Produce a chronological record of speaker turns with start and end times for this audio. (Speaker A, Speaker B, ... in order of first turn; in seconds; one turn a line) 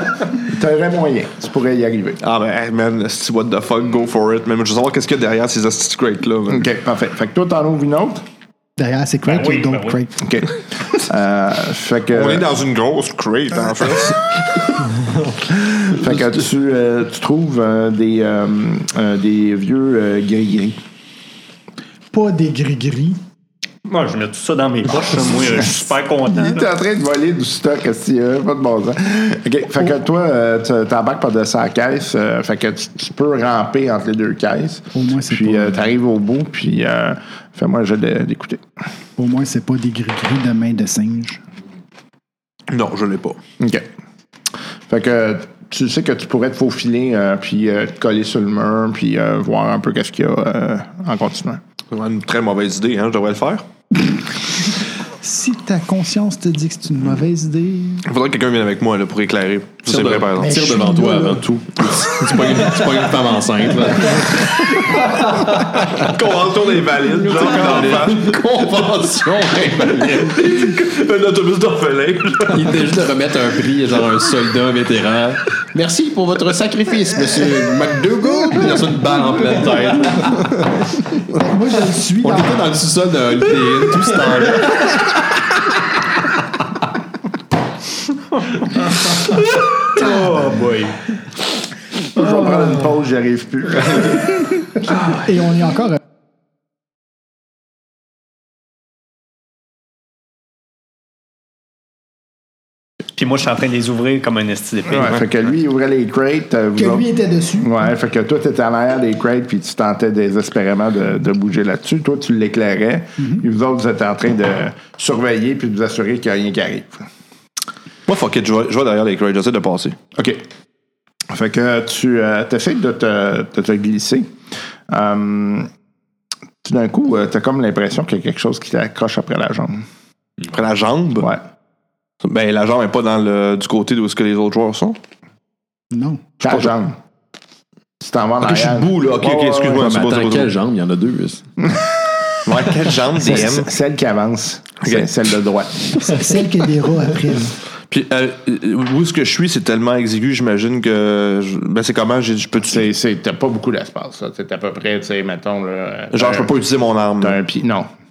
Speaker A: 0.4-2.2
Speaker B: 2.2-6.7
Speaker A: 6.5-8.2
Speaker C: 8.8-10.2
Speaker D: 9.2-10.0
Speaker A: 10.2-12.5
Speaker B: 12.1-14.7
Speaker A: 15.6-20.8
Speaker C: 22.1-23.2
Speaker D: 23.9-26.7
Speaker A: 26.3-38.6
Speaker C: 34.9-35.9
Speaker C: 39.2-41.4
Speaker B: 42.7-43.4
Speaker A: 43.6-43.9
Speaker A: 44.9-51.6
Speaker B: 51.9-53.6
Speaker C: 55.2-58.0
Speaker B: 58.0-60.5
Speaker E: 59.9-65.0
Speaker C: 60.4-61.5
Speaker B: 62.0-62.9
Speaker B: 65.9-72.9
Speaker E: 67.2-70.4
Speaker E: 72.5-81.2
Speaker C: 81.3-82.6
Speaker E: 82.2-85.5
Speaker D: 88.5-91.1
Speaker A: 92.1-94.7
Speaker C: 95.1-96.0
Speaker D: 103.2-105.2
Speaker A: 104.9-117.1
Speaker C: 106.8-107.9
Speaker B: 118.1-120.0
Speaker A: 120.1-120.4
Speaker A: 121.3-124.3
Speaker A: 124.9-125.7
Speaker A: 126.6-129.8
Speaker B: 130.5-131.3
Speaker A: 131.2-131.4
Speaker B: 132.2-135.0
Speaker C: 135.9-136.2
Speaker A: 136.4-137.0
Speaker A: 138.0-139.8
Speaker B: 138.4-140.5
Speaker E: 139.8-141.4
Speaker B: 142.4-143.7
Speaker A: 143.2-146.3
Speaker B: 144.8-145.1
Speaker C: 146.1-147.6
Speaker B: 147.9-152.9
Speaker A: 152.6-156.5
Speaker B: 156.1-157.4
Speaker A: 157.2-157.9